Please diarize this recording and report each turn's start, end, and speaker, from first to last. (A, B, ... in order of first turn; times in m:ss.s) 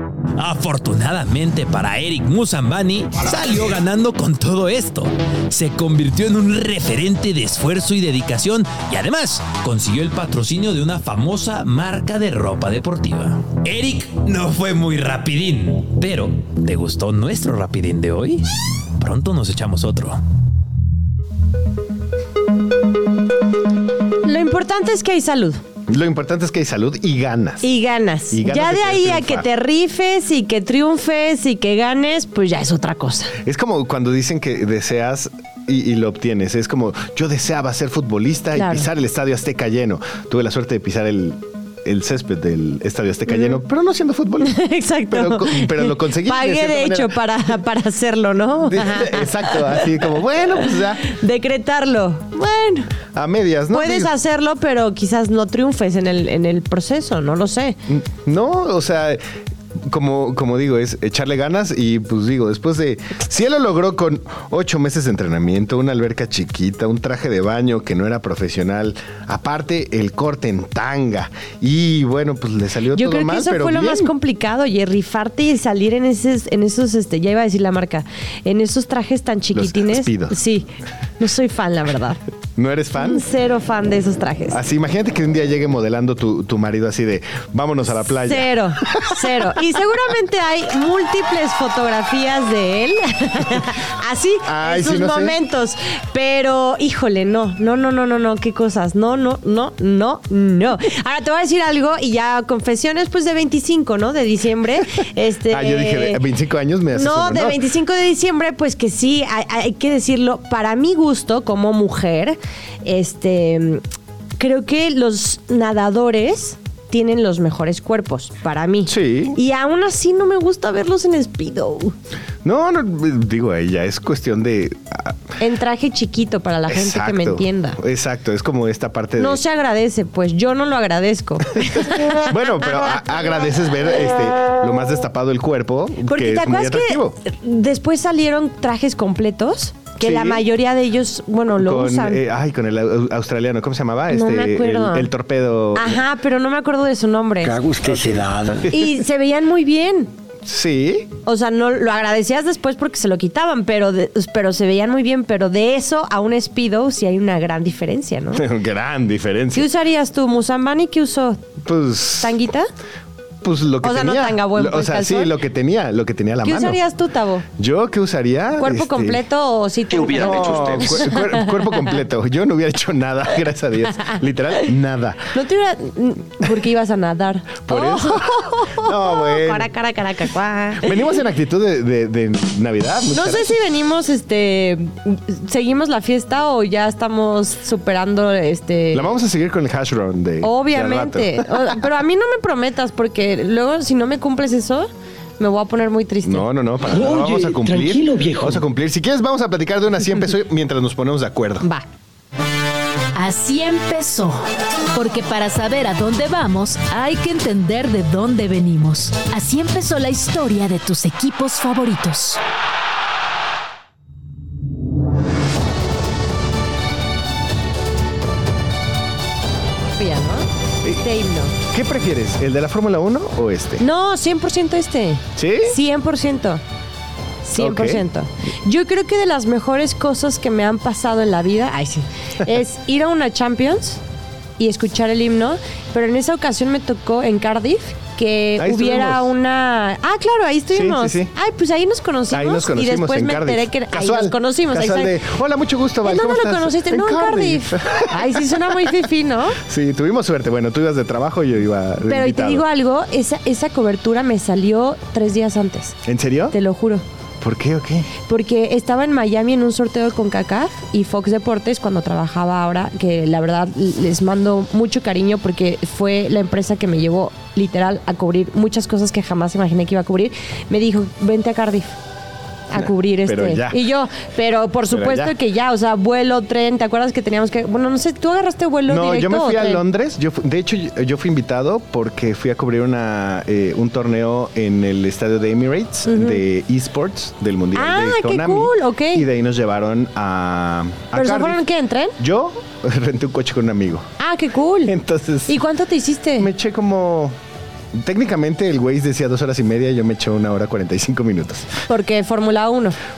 0:00.4-0:18.4 A
0:19.0-0:20.2 A
0:24.2-0:25.6 B
0:25.9-0:27.7 C
0:27.6-0:33.3 B
0:28.3-0:29.5 C
0:33.4-0:44.6 C
0:38.5-0:38.9 B
0:43.3-0:43.6 B
0:44.4-0:50.0 B
0:45.1-0:47.1 C
0:48.7-0:51.1 C
0:51.0-0:52.9 B
0:53.1-0:54.1 C
0:53.7-0:57.8 B
0:57.9-0:59.2 C
0:59.8-1:14.1 C
1:12.9-1:20.7 B
1:19.6-1:20.4 C
1:21.2-1:22.2 B
1:22.6-1:23.2 C
1:23.0-1:24.6 B
1:24.5-1:29.2 C
1:28.2-1:46.2 B
1:34.5-1:35.4 C
1:45.5-1:47.6 C
1:46.9-1:53.8 B
1:54.4-2:02.0 B
1:58.9-1:59.4 C
2:02.4-2:05.2 C
2:05.4-2:07.8 B
2:06.7-2:09.4 C
2:09.2-2:12.3 B
2:11.6-2:17.2 C
2:16.1-2:22.2 B
2:20.0-2:20.4 C
2:21.6-2:26.0 C
2:24.1-2:25.1 B
2:25.8-2:27.6 B
2:27.5-2:28.6 D
2:28.7-2:30.1 B
2:30.5-2:31.1 C
2:31.2-2:38.4 B
2:38.3-2:39.7 C
2:39.5-2:41.5 B
2:41.6-2:42.4 C
2:42.2-2:42.7 B
2:43.4-2:46.8 C
2:43.8-2:45.4 B
2:46.4-2:47.5 B
2:47.6-2:49.2 C
2:48.6-2:51.8 B
2:50.1-2:55.2 C
2:55.3-3:01.0 B
2:57.7-2:59.7 C
3:00.8-3:03.5 C
3:03.1-3:09.1 B
3:08.9-3:11.8 C
3:10.4-3:16.5 B
3:16.2-3:21.6 C
3:16.9-3:18.6 D
3:23.2-3:32.4 E
3:40.0-3:40.5 B
3:41.0-3:41.6 B
3:41.6-3:43.8 C
3:43.8-3:46.6 B
3:45.4-3:45.8 C
3:47.4-3:54.0 B
3:47.6-3:48.0 C
3:54.6-4:05.2 B
3:58.6-3:59.3 C
4:00.7-4:01.3 C
4:02.3-4:08.8 C
4:06.0-4:09.6 B
4:09.6-4:12.6 C
4:12.1-4:16.0 B
4:16.1-4:16.6 C
4:16.5-4:17.0 B
4:17.4-4:18.1 C
4:18.3-4:32.0 B
4:32.7-4:39.8 B
4:32.7-4:33.8 C
4:34.9-4:35.4 C
4:38.9-4:51.6 C
4:46.1-4:46.4 B
4:47.8-4:49.3 B
4:51.1-4:52.2 B
4:52.2-4:54.1 C
4:54.2-4:54.9 B
4:54.9-4:55.6 C
4:55.5-4:56.5 B
4:56.4-4:57.4 C
4:58.0-5:01.7 C
5:01.9-5:03.0 B